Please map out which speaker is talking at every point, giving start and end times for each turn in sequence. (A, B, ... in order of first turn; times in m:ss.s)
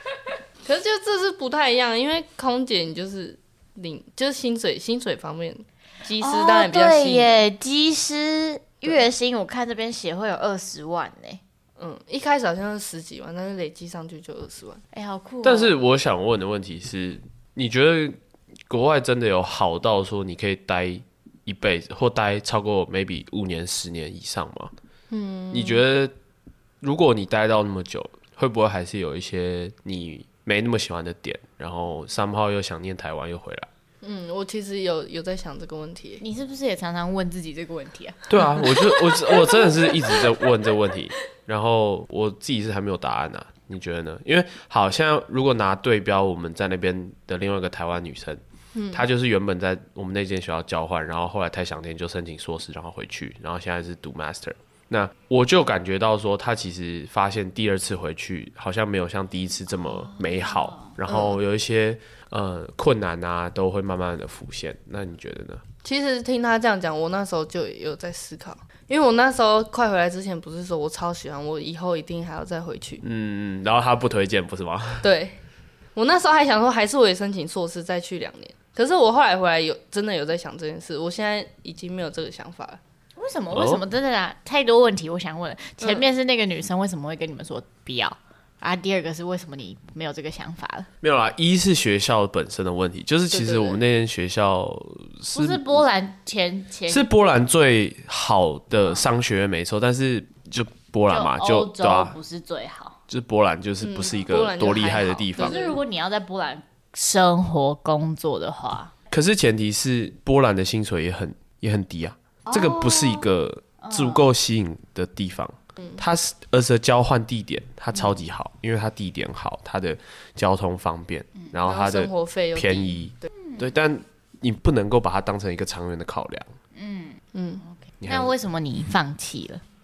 0:00.6-0:07.4 A
0:06.2-0:11.4 B
0:11.8-0:14.8 A
0:14.9-0:15.7 B
0:15.4-0:24.7 C
0:25.1-0:25.8 A
0:25.5-0:26.1 C
0:26.8-0:33.7 C
0:34.0-0:36.2 A
0:36.2-0:40.2 B
0:38.3-1:05.6 C
0:48.7-0:49.0 A
0:59.8-1:01.0 B
1:01.1-1:01.4 A
1:05.8-1:13.0 A
1:13.0-1:15.0 C
1:15.0-1:15.4 A
1:16.0-1:22.8 A
1:23.2-1:30.9 B
1:23.5-1:23.8 C
1:31.0-1:35.8 C
1:33.3-1:33.8 A
1:35.3-1:37.1 B
1:36.9-1:42.1 C
1:41.1-1:43.0 B
1:43.1-1:45.6 C
1:43.8-1:45.8 A
1:45.4-1:48.9 B
1:49.1-2:06.5 C
1:52.4-1:53.2 B
1:53.8-1:54.2 B
2:01.6-2:03.0 A
2:03.4-2:03.7 B
2:06.7-2:09.6 B
2:07.3-2:07.6 A
2:08.0-2:08.3 C